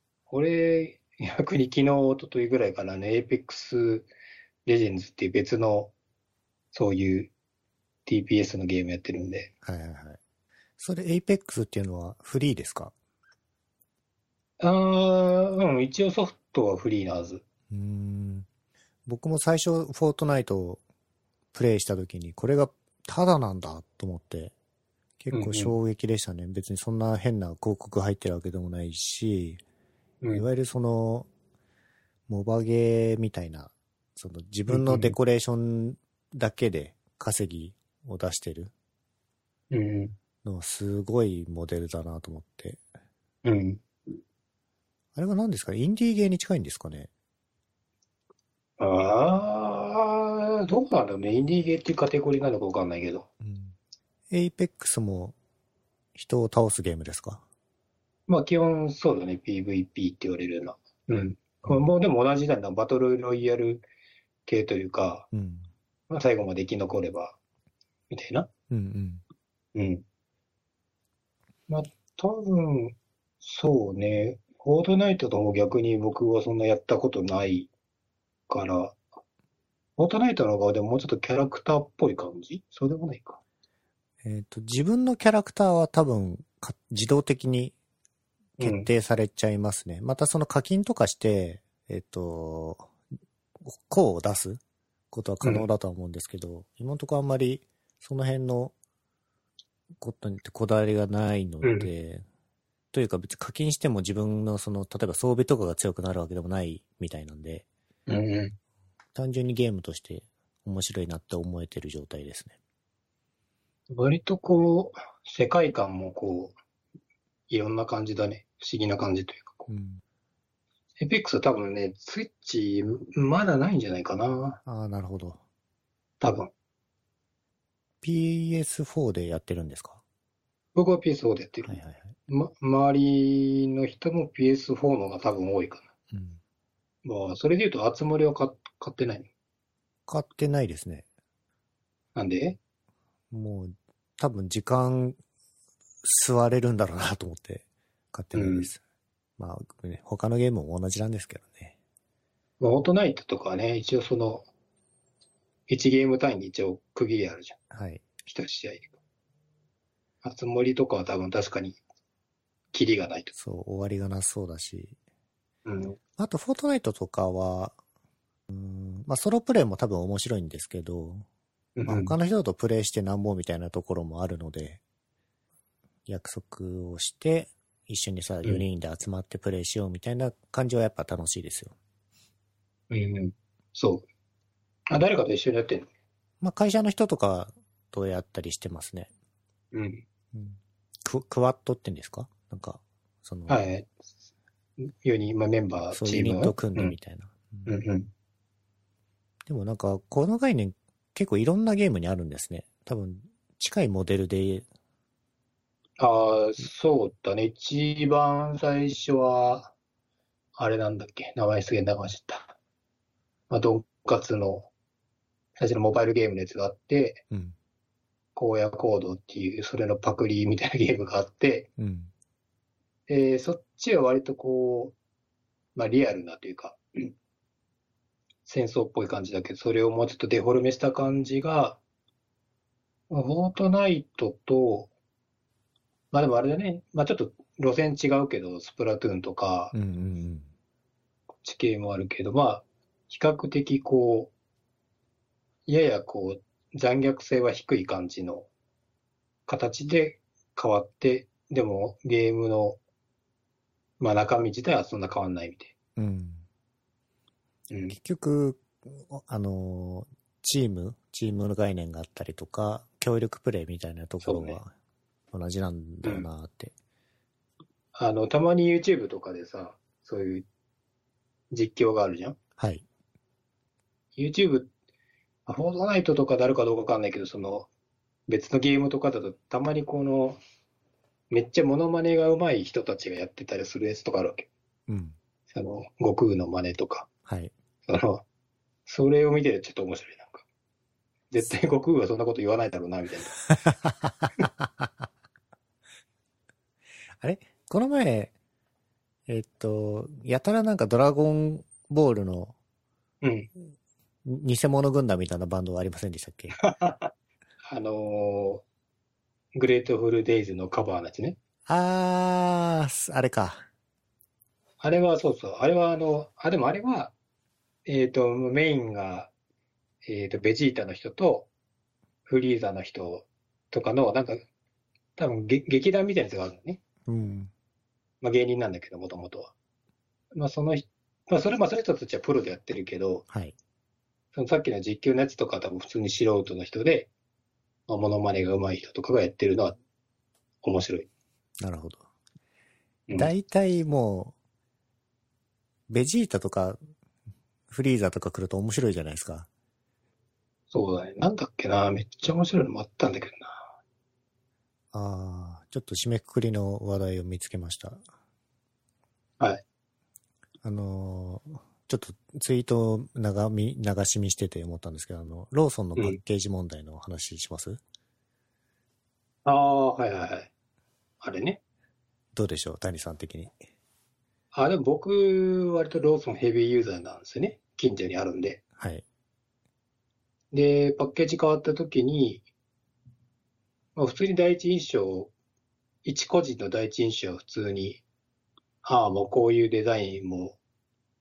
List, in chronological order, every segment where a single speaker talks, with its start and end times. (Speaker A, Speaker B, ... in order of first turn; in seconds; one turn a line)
Speaker A: 0.3-4.1
Speaker A: 4.7-5.9
Speaker A: 6.7-7.3
Speaker A: 8.1-9.5
Speaker B: 9.6-10.2
Speaker B: 10.8-12.9
Speaker A: 14.6-17.4
Speaker B: 17.7-18.5
Speaker B: 19.1-20.8
Speaker B: 21.5-24.5
Speaker B: 25.2-29.6
Speaker A: 25.3-25.7
Speaker B: 30.3-31.3
Speaker B: 32.3-38.7
Speaker A: 34.7-35.2
Speaker A: 39.7-40.1
Speaker B: 40.4-42.8
Speaker A: 43.4-43.8
Speaker B: 45.1-47.1
Speaker A: 48.8-53.3
Speaker B: 53.4-53.8
Speaker B: 54.3-55.4
Speaker B: 56.1-57.4
Speaker A: 58.3-63.9
Speaker A: 64.5-65.3
Speaker B: 65.3-65.7
Speaker A: 66.1-67.4
Speaker A: 68.1-68.5
Speaker B: 68.7-69.2
Speaker A: 69.8-70.0
Speaker A: 71.7-77.7
Speaker A: 78.5-79.0
Speaker A: 80.0-83.4
Speaker B: 84.2-87.7
Speaker A: 88.6-88.9
Speaker B: 88.6-92.9
Speaker B: 93.7-94.6
Speaker B: 95.1-98.7
Speaker B: 100.0-102.2
Speaker A: 101.6-101.9
Speaker B: 102.9-107.7
Speaker A: 108.1-108.6
Speaker B: 109.2-112.6
Speaker A: 113.9-116.5
Speaker A: 117.5-119.7
Speaker B: 119.7-120.0
Speaker A: 121.0-124.6
Speaker B: 124.7-125.4
Speaker A: 126.2-126.5
Speaker B: 128.0-130.0
Speaker A: 130.8-131.8
Speaker B: 131.7-132.2
Speaker A: 132.3-135.9
Speaker B: 136.1-136.4
Speaker A: 137.0-139.3
Speaker B: 140.1-141.1
Speaker A: 142.2-142.6
Speaker B: 143.3-145.2
Speaker B: 146.0-148.8
Speaker A: 148.3-148.7
Speaker B: 149.4-151.8
Speaker A: 152.6-154.4
Speaker A: 155.7-157.6
Speaker B: 157.7-158.0
Speaker A: 158.3-158.9
Speaker A: 160.2-161.8
Speaker A: 162.7-163.3
Speaker B: 163.3-165.0
Speaker A: 165.7-166.0
Speaker B: 166.2-167.8
Speaker B: 168.5-171.3
Speaker A: 171.8-172.1
Speaker B: 171.9-174.8
Speaker B: 176.1-181.8
Speaker A: 182.9-184.1
Speaker A: 184.9-185.9
Speaker B: 186.4-189.1
Speaker A: 189.7-190.0
Speaker B: 190.3-193.6
Speaker A: 193.5-193.9
Speaker A: 194.8-196.9
Speaker B: 195.9-197.8
Speaker A: 197.7-198.1
Speaker B: 199.5-204.7
Speaker A: 206.0-209.7
Speaker A: 210.6-212.6
Speaker A: 213.5-214.7
Speaker A: 215.6-217.2
Speaker B: 217.3-217.6
Speaker A: 218.4-221.7
Speaker B: 221.8-222.1
Speaker A: 223.1-224.9
Speaker A: 225.8-227.1
Speaker A: 228.5-231.8
Speaker A: 233.1-234.9
Speaker A: 236.1-239.7
Speaker B: 239.7-240.5
Speaker A: 241.4-244.3
Speaker A: 245.7-248.5
Speaker A: 249.5-252.8
Speaker A: 254.0-255.7
Speaker B: 256.0-256.4
Speaker A: 257.7-258.0
Speaker B: 257.9-264.7
Speaker A: 264.2-264.6
Speaker B: 265.3-266.7
Speaker A: 267.9-270.5
Speaker A: 271.5-272.4
Speaker B: 272.6-272.9
Speaker A: 274.2-274.7
Speaker A: 275.5-277.7
Speaker A: 278.3-280.4
Speaker A: 281.3-284.5
Speaker B: 284.9-285.2
Speaker A: 285.5-287.1
Speaker B: 287.3-287.5
Speaker A: 287.9-288.2
Speaker A: 288.9-290.4
Speaker A: 291.3-293.4
Speaker B: 293.5-294.9
Speaker B: 297.2-298.3
Speaker B: 299.3-302.6
Speaker A: 303.2-303.5
Speaker B: 304.2-306.6
Speaker A: 306.6-307.1
Speaker A: 307.6-308.6
Speaker A: 309.6-311.4
Speaker B: 311.7-313.7
Speaker A: 314.8-317.1
Speaker A: 317.9-319.3
Speaker A: 320.0-321.5
Speaker A: 322.3-324.4
Speaker A: 325.2-326.8
Speaker B: 327.1-327.5
Speaker A: 328.2-329.5
Speaker A: 330.3-333.2
Speaker B: 333.3-333.6
Speaker A: 334.3-337.1
Speaker A: 337.9-339.8
Speaker A: 340.6-341.1
Speaker B: 341.6-342.1
Speaker B: 343.1-344.3
Speaker B: 345.9-346.8
Speaker B: 347.7-349.5
Speaker A: 350.7-353.7
Speaker B: 354.9-358.0
Speaker B: 360.6-367.8
Speaker A: 369.4-370.5
Speaker A: 371.2-371.6
Speaker B: 372.3-373.5
Speaker A: 374.5-378.6
Speaker B: 378.8-379.1
Speaker A: 380.5-382.4
Speaker A: 384.0-385.3
Speaker A: 386.1-388.0
Speaker A: 388.8-390.6